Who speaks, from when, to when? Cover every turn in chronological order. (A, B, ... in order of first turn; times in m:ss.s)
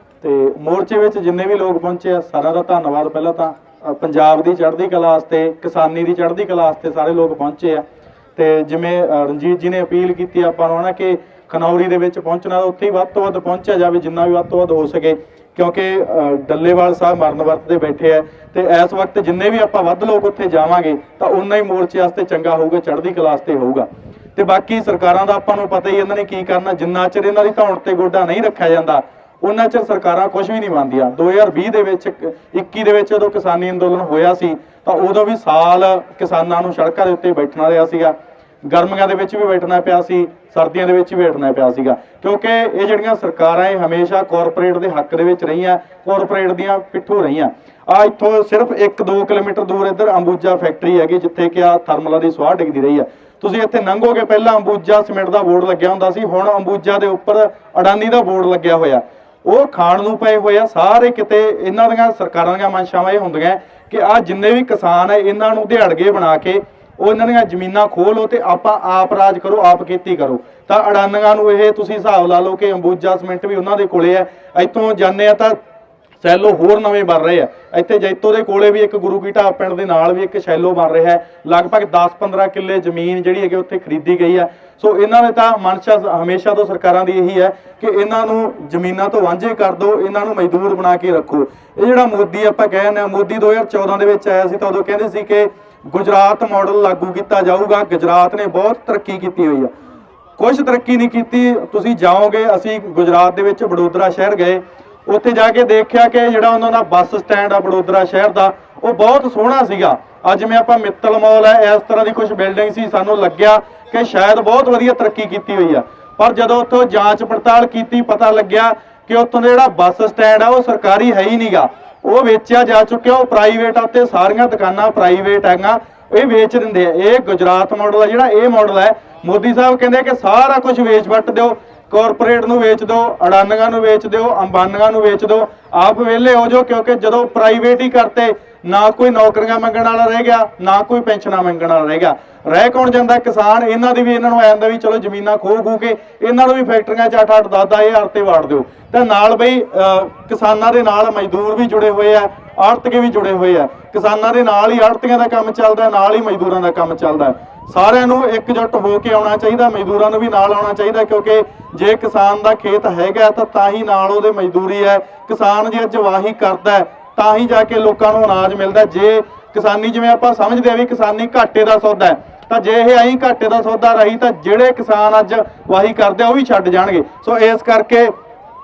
0:00.2-0:07.8 A
0:08.4-1:15.6 A
1:16.2-1:39.7 A
1:40.4-2:58.1 A